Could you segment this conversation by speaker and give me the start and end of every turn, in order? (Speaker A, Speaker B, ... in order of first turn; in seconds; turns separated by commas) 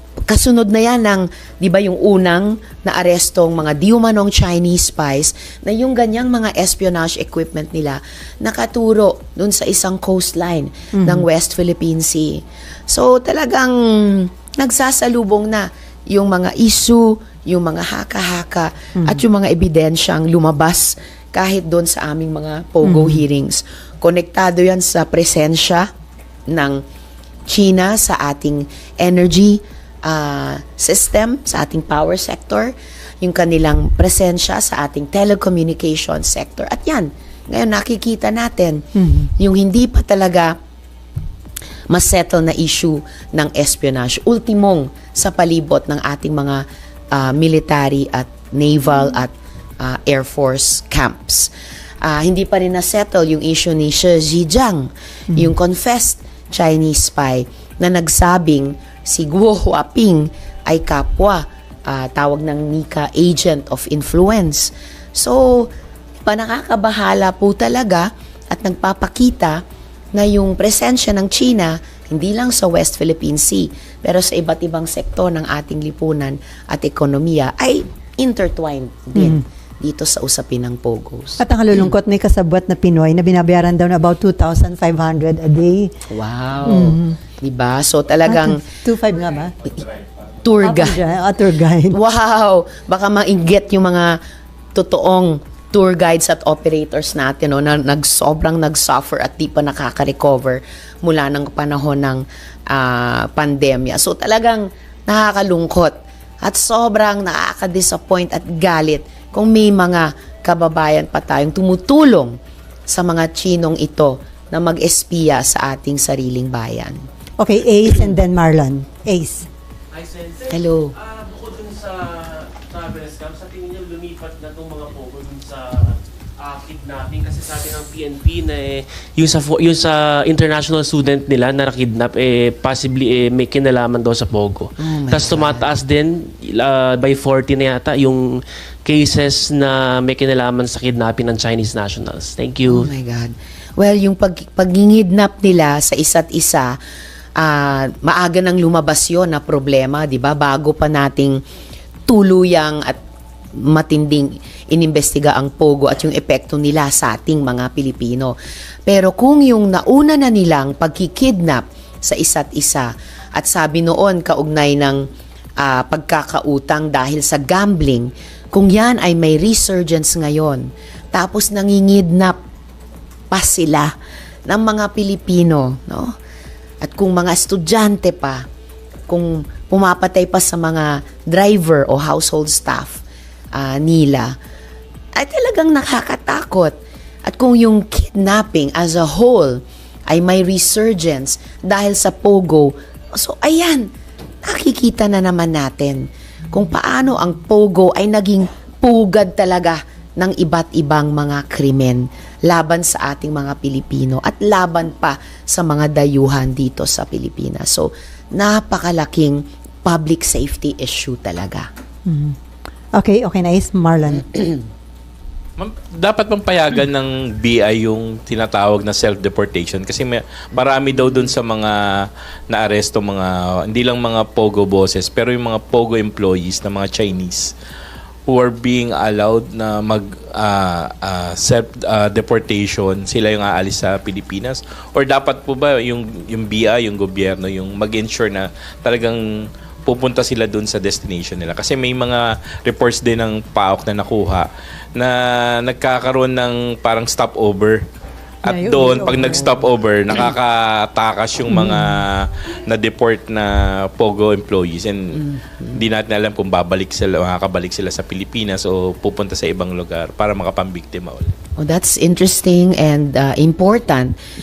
Speaker A: 0.2-25.9, Speaker B: 11.0-11.2, Speaker B: 22.8-23.2, Speaker A: 26.5-26.8, Speaker A: 27.5-40.5, Speaker B: 39.0-39.3, Speaker A: 41.9-51.5, Speaker A: 52.0-65.7, Speaker A: 66.2-69.6, Speaker A: 70.1-81.4, Speaker B: 79.2-79.4, Speaker B: 81.4-85.9, Speaker A: 86.1-88.6, Speaker B: 86.6-87.2, Speaker B: 88.2-89.6, Speaker A: 90.4-91.0, Speaker B: 90.6-92.0, Speaker A: 91.9-94.2, Speaker A: 94.7-112.4, Speaker A: 112.9-117.0, Speaker B: 117.4-119.5, Speaker C: 119.9-142.9, Speaker A: 120.5-120.9, Speaker A: 134.8-135.7, Speaker A: 142.7-146.8, Speaker A: 147.4-151.4, Speaker A: 152.1-153.0, Speaker A: 153.5-158.3, Speaker A: 158.8-165.1, Speaker A: 165.6-172.4, Speaker A: 173.3-173.9, Speaker A: 174.5-176.1, Speaker A: 176.8-178.4, Speaker A: 179.1-184.4, Speaker A: 185.1-193.9, Speaker A: 194.4-211.7, Speaker B: 212.1-212.3, Speaker B: 212.9-214.4, Speaker D: 215.6-227.5, Speaker D: 228.3-239.2, Speaker D: 239.8-247.8, Speaker D: 248.4-261.3, Speaker B: 248.4-249.6, Speaker A: 261.6-264.1